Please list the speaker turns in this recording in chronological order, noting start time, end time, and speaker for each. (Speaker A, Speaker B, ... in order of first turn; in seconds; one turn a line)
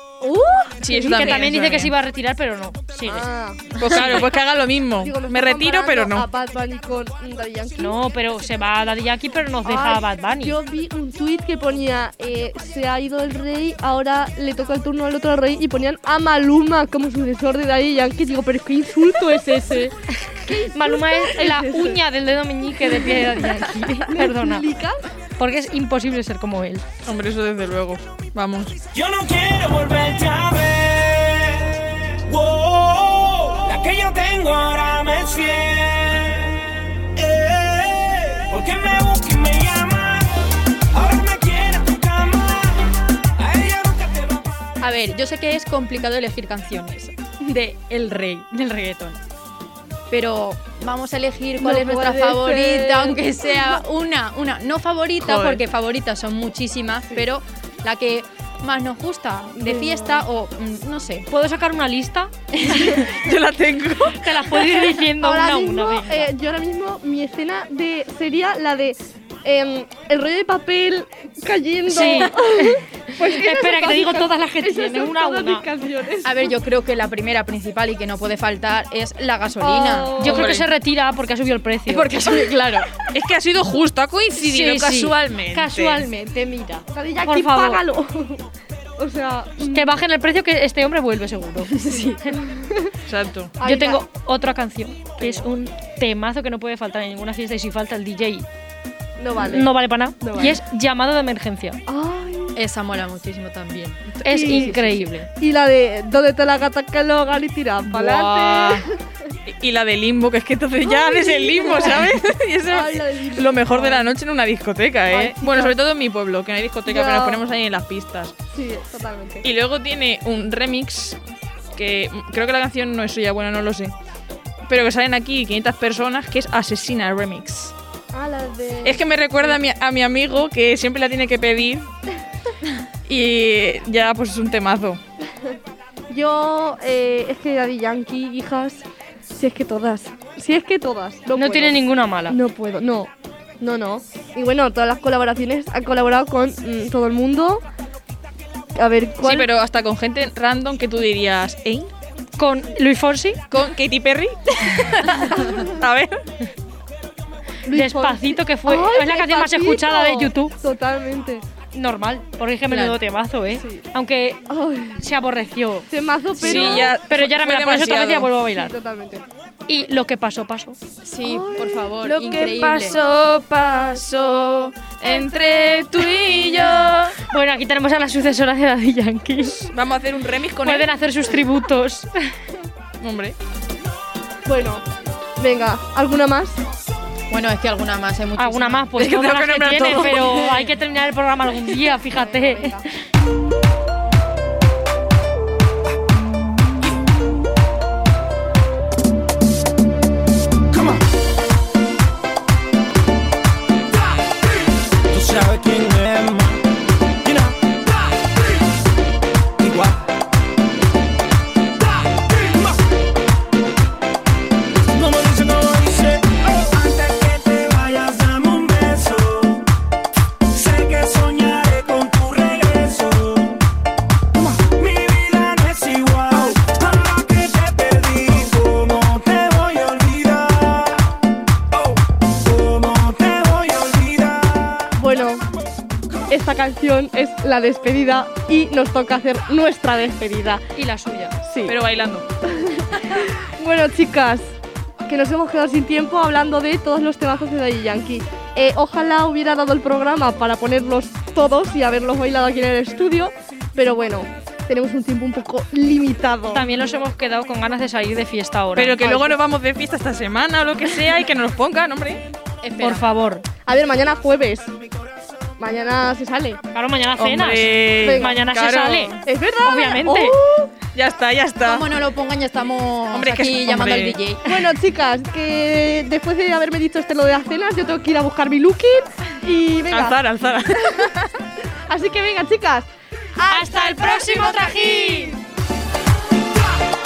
Speaker A: 0.2-1.5
Speaker B: 0.8-1.9
Speaker C: 1.0-3.3
Speaker A: 3.0-4.3
Speaker B: 3.8-6.3
Speaker A: 5.0-8.0
Speaker C: 7.8-10.6
Speaker A: 9.6-19.9
Speaker A: 20.5-22.0
Speaker C: 20.7-24.7
Speaker A: 23.0-25.0
Speaker C: 25.4-26.8
Speaker B: 27.0-28.8
Speaker D: 28.9-40.4
Speaker D: 40.9-42.8
Speaker D: 43.4-44.4
Speaker E: 44.8-49.2
Speaker E: 50.1-61.3
Speaker A: 51.6-53.9
Speaker B: 55.2-55.6
Speaker A: 59.5-60.3
Speaker C: 61.3-63.1
Speaker E: 62.5-62.9
Speaker B: 62.9-64.7
Speaker C: 64.2-66.3
Speaker A: 65.2-76.6
Speaker C: 71.9-75.7
Speaker E: 76.2-80.1
Speaker A: 79.6-80.6
Speaker B: 80.2-80.7
Speaker C: 80.2-82.1
Speaker E: 81.9-83.0
Speaker B: 83.1-86.1
Speaker C: 84.3-87.8
Speaker A: 86.9-88.4
Speaker A: 89.0-89.9
Speaker C: 89.6-92.4
Speaker E: 91.7-92.2
Speaker A: 92.4-92.9
Speaker B: 93.1-93.5
Speaker A: 93.6-94.0
Speaker C: 93.6-98.4
Speaker A: 99.2-100.6
Speaker C: 99.4-101.8
Speaker A: 101.9-102.6
Speaker E: 102.5-105.3
Speaker C: 104.2-105.1
Speaker A: 104.3-109.0
Speaker B: 107.8-108.8
Speaker B: 109.5-118.3
Speaker A: 110.8-114.1
Speaker A: 115.1-115.8
Speaker A: 116.9-117.4
Speaker A: 118.5-119.5
Speaker B: 119.4-121.2
Speaker B: 121.7-123.9
Speaker B: 124.7-127.7
Speaker A: 128.1-129.6
Speaker B: 128.8-131.9
Speaker B: 133.1-135.0
Speaker A: 136.1-143.1
Speaker C: 141.3-142.4
Speaker A: 143.6-147.6
Speaker A: 148.7-149.5
Speaker B: 149.2-151.9
Speaker C: 152.4-153.4
Speaker B: 153.5-156.2
Speaker A: 157.6-161.4
Speaker C: 157.7-160.5
Speaker C: 161.7-164.4
Speaker E: 162.7-163.0
Speaker A: 163.6-163.8
Speaker A: 164.5-165.0
Speaker C: 165.0-168.7
Speaker A: 165.9-167.0
Speaker B: 166.4-168.3
Speaker A: 168.5-169.2
Speaker C: 169.7-170.8
Speaker E: 171.0-173.0
Speaker A: 171.2-172.0
Speaker B: 172.0-177.2
Speaker C: 177.2-179.7
Speaker B: 179.6-180.9
Speaker C: 180.6-182.1
Speaker B: 183.0-183.4
Speaker A: 184.4-184.8
Speaker A: 185.4-186.6
Speaker E: 187.3-189.0
Speaker C: 188.3-192.9
Speaker B: 188.9-190.6
Speaker A: 191.9-192.8
Speaker D: 205.1-206.6
Speaker D: 207.2-207.6
Speaker D: 209.6-210.0
Speaker D: 214.9-219.6
Speaker D: 220.5-223.6
Speaker D: 224.3-231.0
Speaker D: 231.7-234.9
Speaker A: 235.0-235.4
Speaker A: 236.3-240.6
Speaker C: 240.7-241.4
Speaker A: 241.4-241.8
Speaker B: 241.6-242.2
Speaker A: 242.4-244.5
Speaker A: 245.1-256.6
Speaker C: 256.5-259.0
Speaker B: 258.8-262.2
Speaker A: 259.0-259.4
Speaker E: 262.6-263.1
Speaker C: 262.8-263.4
Speaker A: 263.6-264.7
Speaker A: 265.6-266.6
Speaker C: 266.7-270.4
Speaker B: 267.2-269.2
Speaker A: 268.0-268.3
Speaker A: 269.2-270.7
Speaker B: 270.9-272.0
Speaker E: 271.6-274.4
Speaker B: 273.1-274.2
Speaker A: 274.4-281.1
Speaker B: 279.9-281.2
Speaker A: 281.9-285.3
Speaker C: 283.5-285.4